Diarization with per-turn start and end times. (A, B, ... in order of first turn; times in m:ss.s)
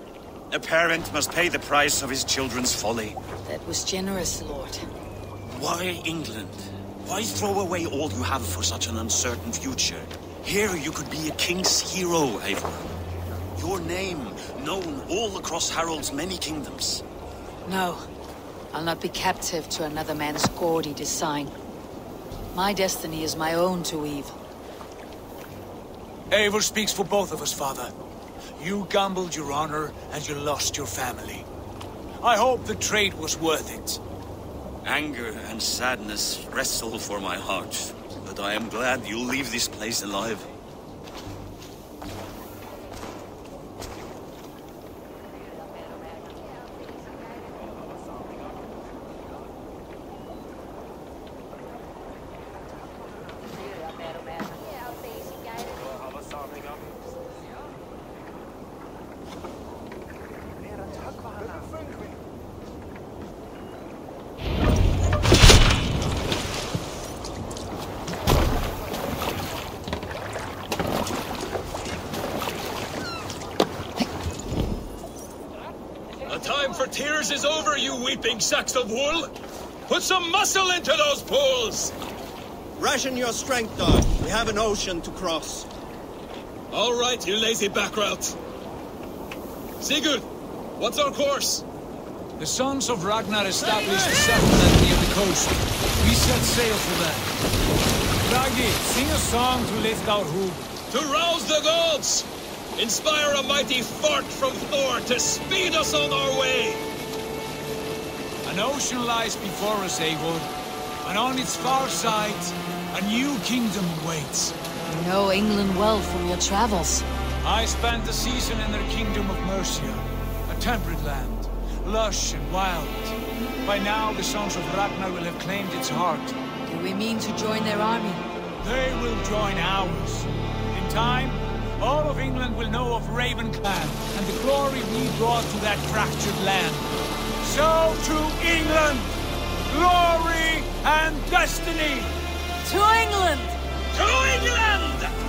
0:00.5-0:03.2 A
0:03.4-0:04.8 B
0:05.4-0:12.9 A
0:13.6-0:17.0 A
0:17.6-0:18.0 B
0:18.7-0:21.5 B
0:22.5-0:24.4 B
0:26.3-0:27.9 C
0:28.6-0:31.4 C
0:32.2-0:34.0 C
0:34.8-0:40.5 A
1:16.3-1:19.3 D
1:19.9-1:21.9 D
1:22.8-1:25.7 E
1:26.7-1:28.4 D
1:29.8-1:30.2 D
1:30.8-1:31.6 D
1:32.4-1:37.3 C
1:33.8-1:34.1 D
1:38.2-1:40.7 C
1:40.9-1:46.8 D
1:48.4-1:50.5 C
1:51.0-1:54.6 C
1:54.9-1:57.1 B
1:57.4-2:06.4 C
2:06.6-2:08.2 B
2:08.6-2:16.9 C
2:17.4-2:19.1 C
2:19.7-2:22.1 C
2:22.6-2:23.5 B
2:24.0-2:24.9 D